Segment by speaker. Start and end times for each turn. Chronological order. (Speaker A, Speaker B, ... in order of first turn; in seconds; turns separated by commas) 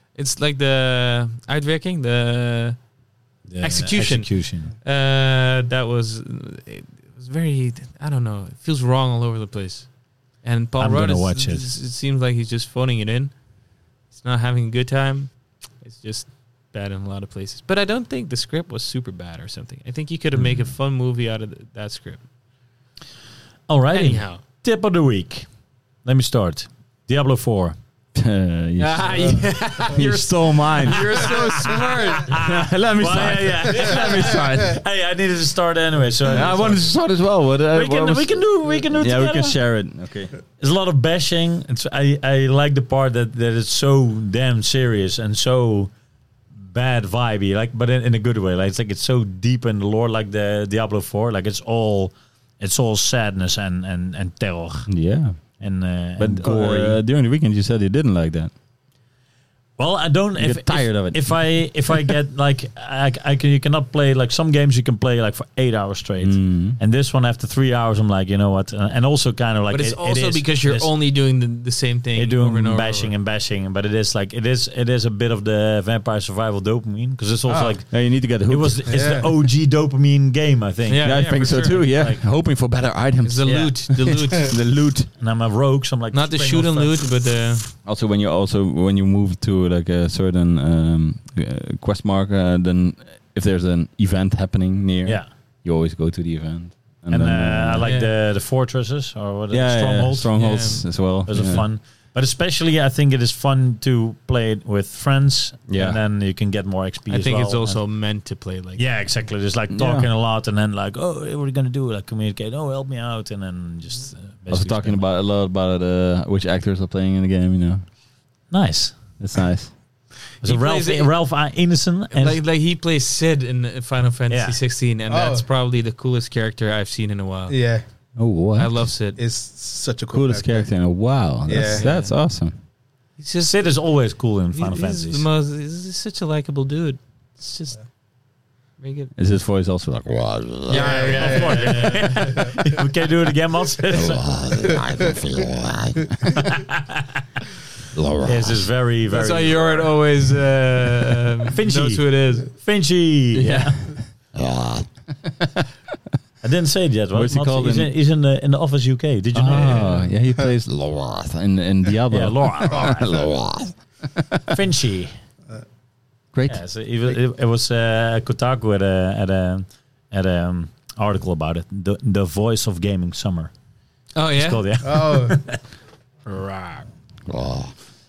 Speaker A: 0.1-2.8, Speaker B: 3.5-4.7, Speaker A: 3.6-13.3, Speaker B: 10.8-11.7, Speaker A: 14.1-22.2, Speaker B: 23.7-25.5, Speaker A: 23.9-24.4, Speaker B: 26.0-27.8, Speaker C: 28.1-31.4, Speaker A: 28.8-32.5, Speaker B: 30.9-37.0, Speaker C: 32.2-34.8, Speaker C: 36.2-40.3, Speaker B: 37.7-39.6, Speaker B: 40.6-45.9, Speaker B: 46.6-54.9, Speaker C: 54.9-55.6, Speaker B: 55.5-57.0, Speaker C: 56.2-58.5, Speaker B: 59.8-70.9, Speaker C: 60.4-61.6, Speaker C: 66.2-66.8, Speaker A: 69.7-73.1, Speaker B: 72.1-82.2, Speaker D: 77.5-77.8, Speaker C: 77.9-79.1, Speaker D: 78.9-79.4, Speaker A: 80.9-81.8, Speaker C: 81.0-83.9, Speaker A: 83.2-84.5, Speaker B: 83.5-84.3, Speaker C: 84.4-85.1, Speaker B: 85.1-87.2, Speaker A: 86.1-87.7, Speaker C: 87.8-97.9, Speaker B: 95.0-95.3, Speaker B: 97.1-100.3, Speaker A: 97.8-98.1, Speaker C: 99.5-101.7, Speaker A: 100.3-100.8, Speaker B: 101.1-107.8, Speaker C: 105.7-106.0, Speaker A: 107.1-108.8, Speaker B: 108.8-115.1, Speaker C: 109.7-110.1, Speaker C: 114.5-117.8, Speaker B: 118.5-119.1, Speaker C: 119.2-119.7, Speaker B: 120.4-122.4, Speaker A: 120.4-121.1, Speaker A: 122.1-127.5, Speaker B: 124.3-124.6, Speaker D: 125.1-125.4, Speaker D: 127.5-127.8, Speaker C: 128.2-128.8, Speaker A: 128.6-129.2, Speaker D: 129.2-130.7, Speaker C: 130.1-132.6, Speaker D: 131.4-131.9, Speaker A: 131.7-132.1, Speaker A: 133.2-133.7, Speaker B: 133.4-135.2, Speaker A: 134.5-137.8, Speaker A: 138.8-139.1, Speaker C: 139.2-140.8, Speaker A: 140.7-142.5, Speaker D: 140.7-142.7, Speaker B: 140.8-144.8, Speaker C: 144.2-146.0, Speaker D: 144.6-145.4, Speaker B: 146.3-147.2, Speaker C: 148.0-148.2, Speaker B: 148.2-149.9, Speaker A: 149.1-152.5, Speaker B: 151.5-154.0, Speaker C: 153.3-155.6, Speaker B: 156.4-160.1, Speaker C: 157.1-157.9, Speaker C: 159.3-164.5, Speaker B: 162.1-163.3, Speaker B: 164.5-165.1, Speaker C: 166.3-166.6, Speaker B: 166.5-173.5, Speaker A: 174.1-174.6, Speaker B: 174.3-175.6, Speaker D: 174.8-175.4, Speaker A: 176.3-176.8, Speaker C: 177.3-177.7